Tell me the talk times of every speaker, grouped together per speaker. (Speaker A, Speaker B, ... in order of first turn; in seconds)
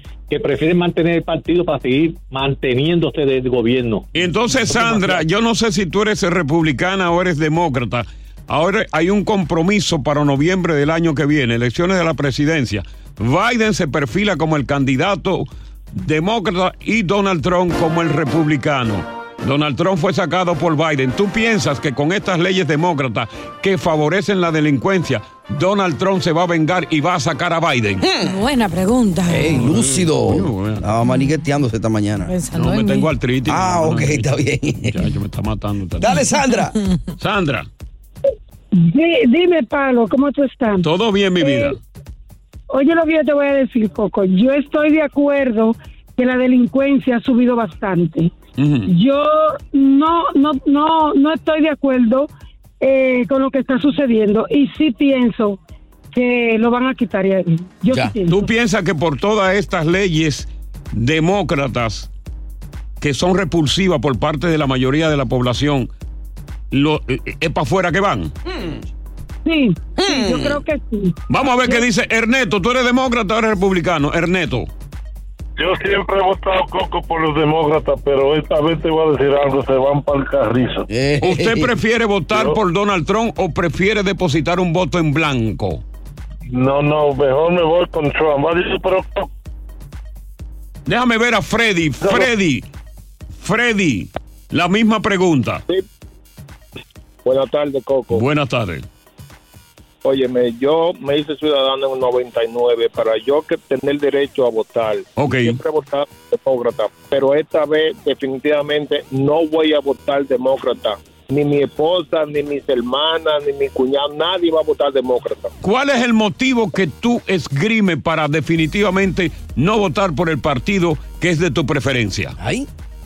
Speaker A: 0.3-5.2
Speaker B: 4.1-28.0, 29.6-30.9, 32.5-34.3, 34.9-36.2, 37.2-37.7, 40.8-41.8, 48.6-48.9, 58.2-62.1, 63.0-65.9, 66.7-68.3, 71.3-74.7, 81.2-85.8, 90.8-92.7, 93.4-95.6, 98.1-98.8, 105.2-105.6, 115.6-122.3
Speaker C: 28.0-28.4, 29.2-32.3, 33.5-35.0, 36.0-36.7, 68.5-68.8, 70.0-70.6, 80.9-81.7, 122.4-122.7
Speaker D: 28.2-29.5, 32.3-33.1
Speaker E: 38.7-40.9, 41.4-41.8, 42.7-48.3, 48.9-52.3, 52.8-55.6, 56.1-58.5, 69.4-71.8
Speaker F: 75.6-80.8, 86.5-89.3
Speaker G: 97.2-98.2, 100.0-115.5